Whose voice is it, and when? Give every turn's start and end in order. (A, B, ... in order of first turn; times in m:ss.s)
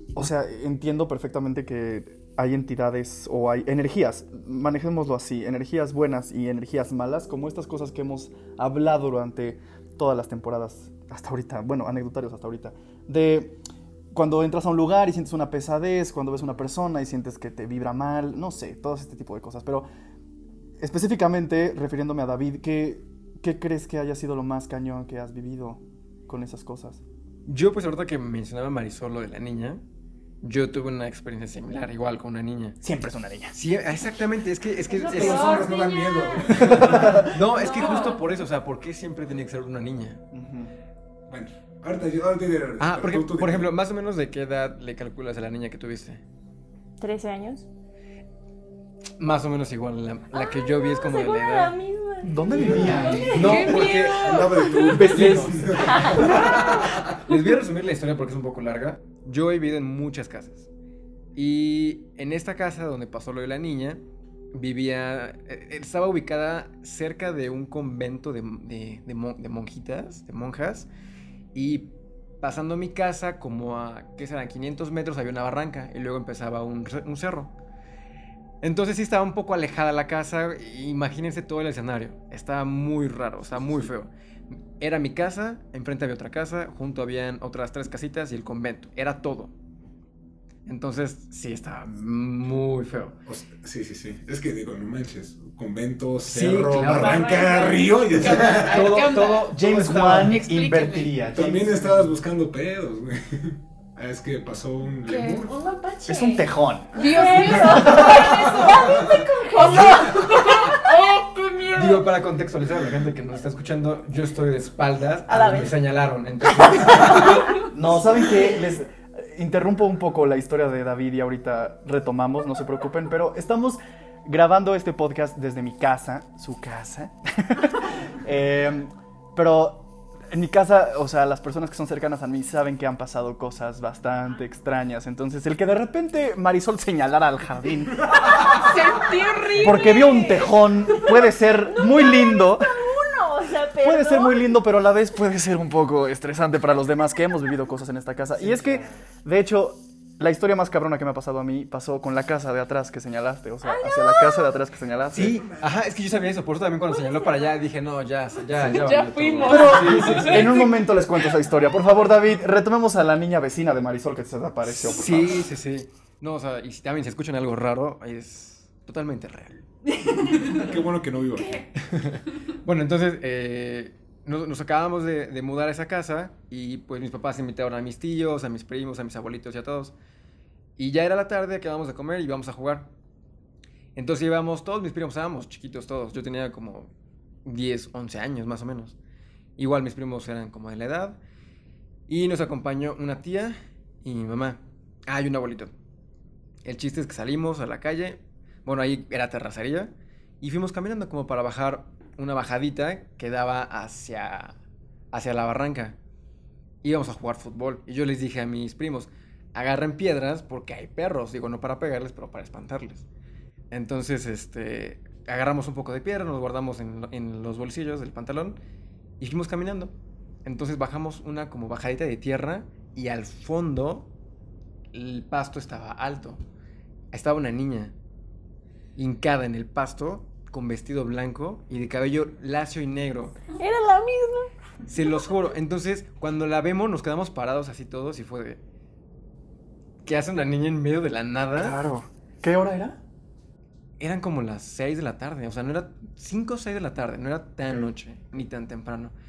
0:00.2-0:13.6 A
0:14.1-0:19.9 A
0:20.8-0:27.0 A
0:27.5-0:29.8 B
0:30.4-0:32.8 B
0:32.8-0:33.6 A
0:33.5-0:35.7 B
0:34.9-0:36.6 C
0:35.1-0:37.3 D
0:36.5-0:40.2 B
0:36.6-0:37.3 A
0:37.6-0:38.2 C
0:37.7-0:38.2 E
0:40.3-0:40.7 A
0:41.3-0:43.7 D
0:42.8-0:46.2 B
0:47.0-0:47.7 C
0:49.2-0:51.8 B
0:50.3-0:53.5 C
0:52.2-0:53.7 A
0:52.5-0:57.2 D
0:52.8-0:55.0 E
0:52.9-0:54.3 B
0:54.9-0:55.8 A
0:55.0-1:00.7 B
0:55.8-0:57.0 C
1:01.4-1:04.0 B
1:04.5-1:10.9 B
1:11.5-1:17.5 B
1:18.6-1:24.1 B
1:24.8-1:29.5 B
1:30.7-1:33.2 B
1:33.3-1:38.9 D
1:36.2-1:37.4 B
1:37.0-1:37.9 C
1:37.2-1:41.2 E
1:38.7-1:42.1 A
1:38.9-1:40.4 B
1:41.3-1:45.5 D
1:45.1-1:45.4 E
1:45.4-1:51.2 C
1:46.0-1:47.0 A
1:47.0-1:52.1 E
1:47.3-1:50.3 D
1:51.7-1:57.6 B
1:55.3-1:55.7 C
1:56.9-1:57.4 C
1:57.7-2:18.1 A
2:18.5-2:20.5 E
2:19.6-2:22.7 A
2:19.7-2:24.6 C
2:23.8-2:35.4 A
2:28.4-2:28.9 B
2:33.6-2:34.6 C
2:35.1-2:40.5 B
2:35.2-2:35.8 D
2:37.0-2:37.3 C
2:38.6-2:40.8 E
2:39.5-2:45.4 A
2:44.7-2:50.5 B
2:50.1-2:51.7 D
2:51.8-3:00.0 B
3:00.8-3:02.9 B
3:04.0-3:06.9 B
3:07.4-3:09.0 B
3:09.6-3:11.2 B
3:12.1-3:15.7 B
3:16.6-3:24.6 B
3:25.1-3:26.0 B
3:26.8-3:33.1 B
3:33.7-3:38.6 B
3:39.2-3:39.9 B
3:40.4-3:44.1 B
3:44.9-3:46.4 B
3:47.1-3:47.9 B
3:49.0-3:53.4 B
3:53.6-3:54.5 C
3:54.9-3:58.6 B
4:00.0-4:01.8 B
4:01.6-4:03.0 A
4:04.0-4:09.1 B